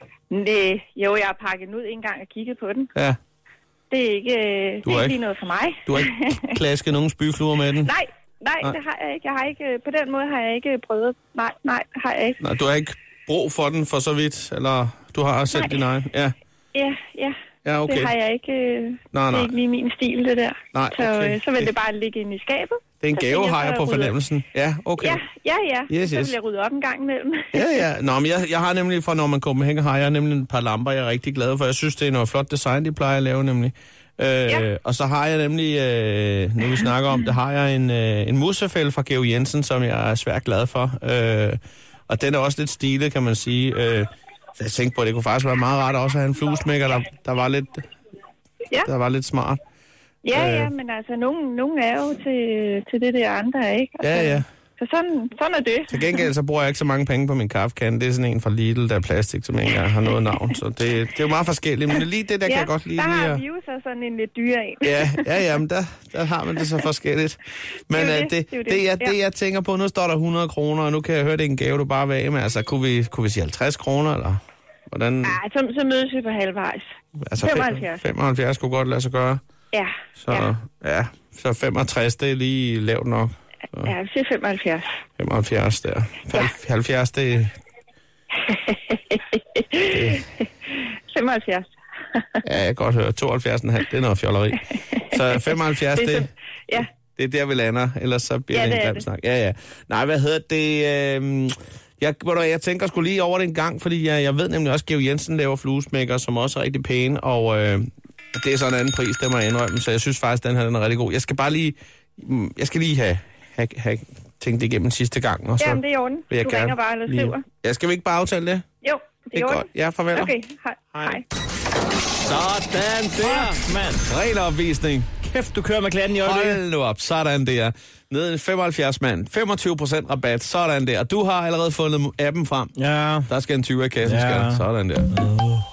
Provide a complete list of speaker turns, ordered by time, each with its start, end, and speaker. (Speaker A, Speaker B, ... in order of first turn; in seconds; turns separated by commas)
Speaker A: 0.3-2.9, Speaker A: 3.9-6.4, Speaker B: 4.8-5.2, Speaker B: 5.8-7.9, Speaker A: 7.8-12.4, Speaker B: 12.4-16.3, Speaker A: 15.5-15.8, Speaker A: 16.7-17.3, Speaker B: 17.6-18.1, Speaker A: 17.9-24.1, Speaker B: 19.1-19.5, Speaker B: 20.7-21.7, Speaker B: 23.0-25.2, Speaker A: 25.0-27.7, Speaker B: 25.9-26.3, Speaker B: 27.5-47.8, Speaker B: 48.8-49.6, Speaker A: 50.2-56.2, Speaker B: 50.3-50.7, Speaker B: 54.0-54.5, Speaker B: 55.9-63.4, Speaker A: 62.5-65.3, Speaker B: 64.8-75.4, Speaker A: 67.9-69.2, Speaker A: 75.2-76.8, Speaker B: 77.2-79.4, Speaker A: 77.4-78.0, Speaker A: 79.7-80.5, Speaker B: 80.2-83.9, Speaker A: 83.8-84.9, Speaker B: 85.2-87.5, Speaker A: 88.4-92.2, Speaker B: 89.9-90.2, Speaker B: 92.4-118.6, Speaker A: 95.9-96.8, Speaker A: 98.5-99.0, Speaker A: 115.6-117.4, Speaker A: 118.8-121.2, Speaker B: 119.3-120.3, Speaker B: 120.9-121.2, Speaker B: 122.2-125.1, Speaker C: 123.2-124.0, Speaker C: 125.2-126.6, Speaker B: 126.2-132.7, Speaker C: 132.8-133.3, Speaker B: 133.3-135.1, Speaker C: 134.0-135.6